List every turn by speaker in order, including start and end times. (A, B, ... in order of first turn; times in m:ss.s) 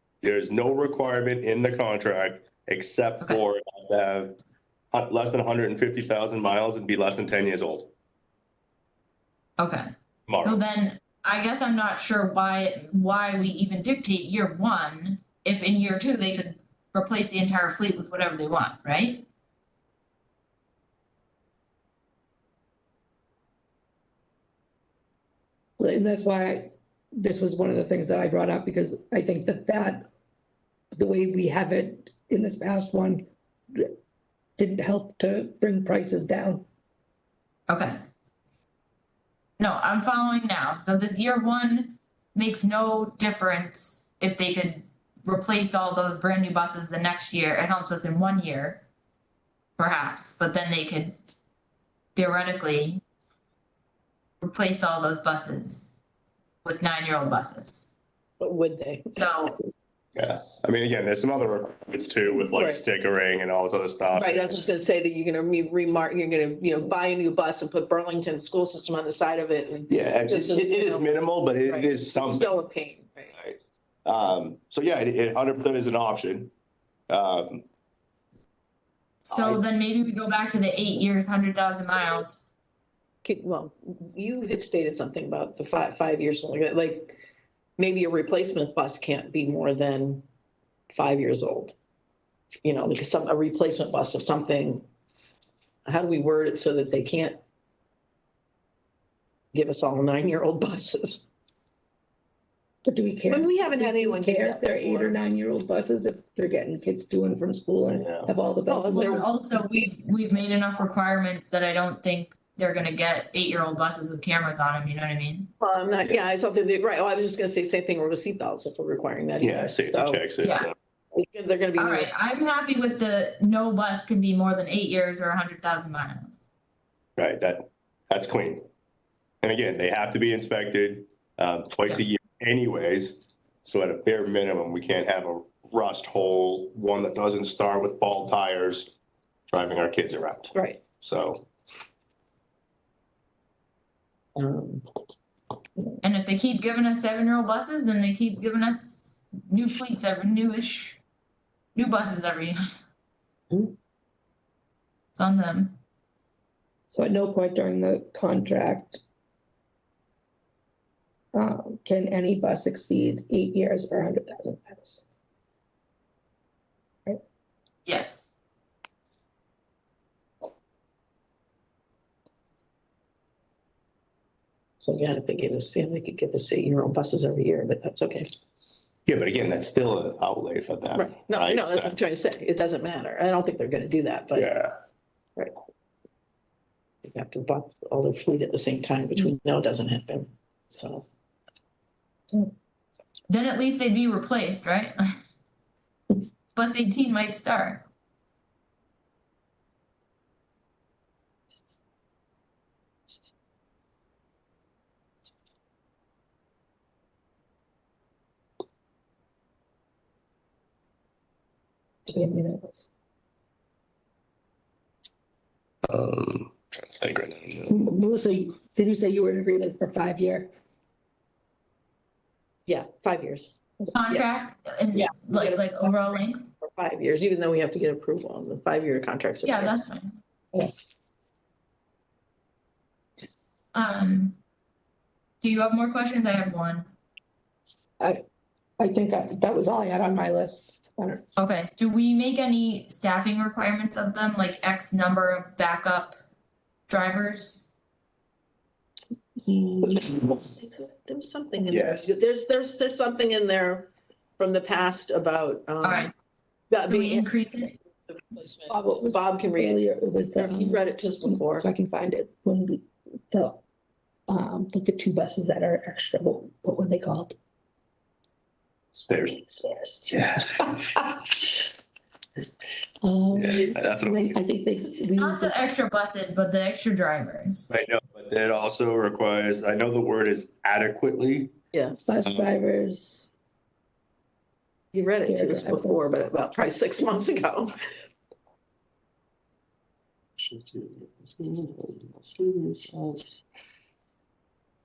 0:00.2-0:04.4 A
0:04.9-0:07.9 A
0:09.6-0:09.9 B
0:10.3-0:10.6 A
0:10.4-0:19.2 B
0:25.8-0:30.1 C
0:30.9-0:33.9 C
0:34.6-0:36.6 C
0:37.7-0:38.0 B
0:39.6-0:48.8 B
0:49.8-0:51.2 B
0:52.2-0:53.0 B
0:54.4-0:55.9 B
0:56.6-0:57.9 B
0:58.4-0:59.3 D
0:59.2-0:59.6 B
1:00.2-1:04.7 A
1:02.5-1:02.8 D
1:04.1-1:11.1 D
1:09.9-1:12.6 A
1:11.7-1:13.4 D
1:13.4-1:16.5 A
1:17.1-1:17.6 A
1:19.2-1:22.4 B
1:19.3-1:19.6 A
1:23.2-1:27.2 D
1:27.8-1:30.2 D
1:30.9-1:31.8 D
1:32.6-1:34.9 D
1:35.9-1:37.4 D
1:39.5-1:41.3 D
1:42.8-1:49.3 C
1:43.3-1:45.2 D
1:47.9-1:48.3 A
1:48.7-1:49.3 D
1:48.8-1:55.5 B
1:55.6-2:00.3 D
1:59.4-2:00.7 A
2:00.4-2:00.7 B
2:01.1-2:02.1 D
2:01.8-2:06.4 B
2:07.2-2:08.7 A
2:09.4-2:19.0 A
2:19.5-2:21.5 A
2:20.5-2:20.8 D
2:24.4-2:24.8 D
2:26.0-2:31.0 B
2:31.8-2:32.6 B
2:35.2-2:35.8 B
2:36.9-2:39.0 C
2:41.3-2:45.0 C
2:47.9-2:48.2 B
2:54.8-2:58.3 D
2:59.1-3:02.0 A
3:01.0-3:04.5 D
3:04.3-3:04.8 A
3:07.0-3:11.1 D
3:13.3-3:15.0 B
3:16.5-3:17.8 B
3:32.1-3:32.8 C
3:35.8-3:37.7 A
3:37.7-3:40.5 C
3:42.7-3:43.5 D
3:43.9-3:46.5 B
3:44.9-3:45.9 D
3:46.6-3:49.8 D
3:49.4-3:50.2 B
3:53.7-3:54.4 B
3:55.4-3:56.9 B
3:58.8-4:01.3 C
4:01.4-4:06.2 B
4:06.9-4:07.7 B
4:09.4-4:10.7 C
4:10.8-4:16.1 D
4:11.7-4:12.1 A
4:15.8-4:16.1 B
4:16.7-4:17.4 D
4:16.9-4:17.8 B
4:18.1-4:19.8 D
4:18.7-4:23.6 C
4:20.4-4:21.7 D
4:24.3-4:27.4 C
4:29.0-4:31.0 A
4:33.0-4:35.6 C
4:33.3-4:34.4 A
4:35.2-4:37.7 B
4:37.7-4:41.5 A
4:41.7-4:42.0 D
4:42.0-4:43.3 C
4:42.2-4:42.5 A
4:44.9-4:47.7 D
4:45.3-4:46.1 C
4:50.4-4:53.3 A